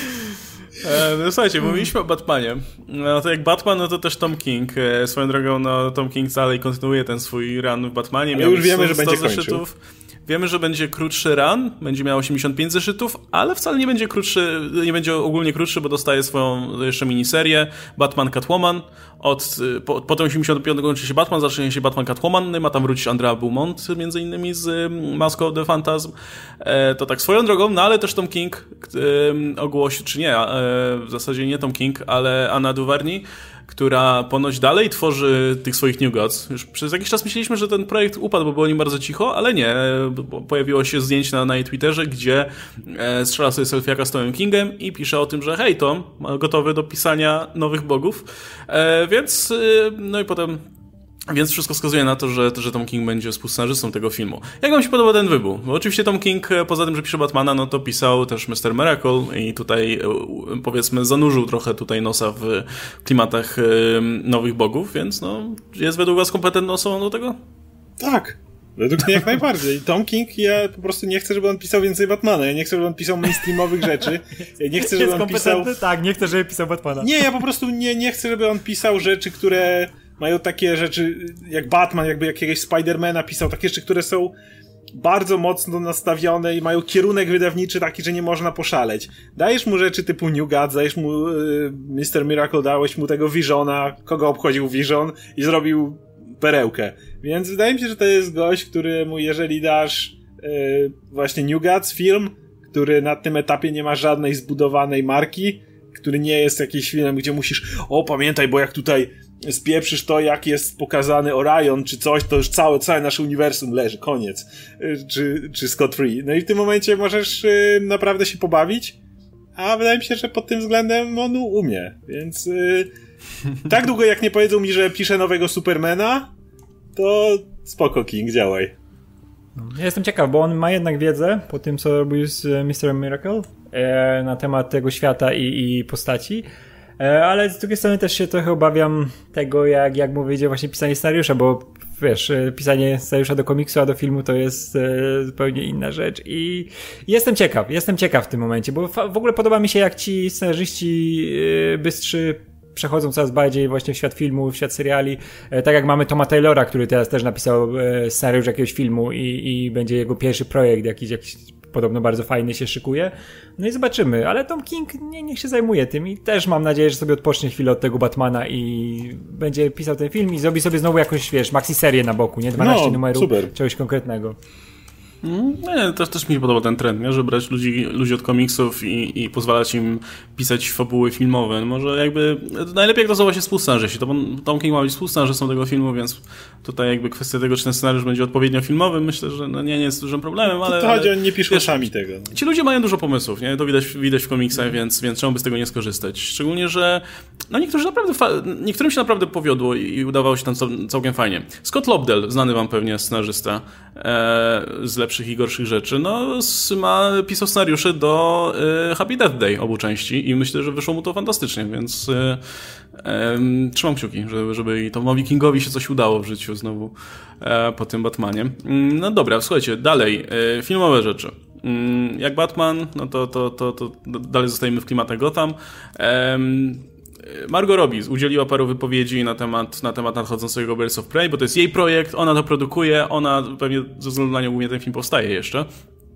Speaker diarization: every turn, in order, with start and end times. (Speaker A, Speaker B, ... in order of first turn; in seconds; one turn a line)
Speaker A: 0.8-50.6
Speaker B: 8.3-9.6
Speaker A: 51.3-67.4
Speaker B: 68.0-75.7
Speaker C: 73.6-74.2
Speaker C: 74.8-77.3
Speaker B: 77.0-84.3
Speaker B: 84.9-119.0
Speaker B: 119.5-122.9
Speaker B: 123.7-126.3
Speaker B: 127.0-128.7
Speaker C: 129.6-136.4
Speaker C: 137.0-174.3
Speaker B: 172.6-173.5
Speaker A: 175.2-212.4
Speaker B: 190.4-192.3
Speaker A: 212.9-235.7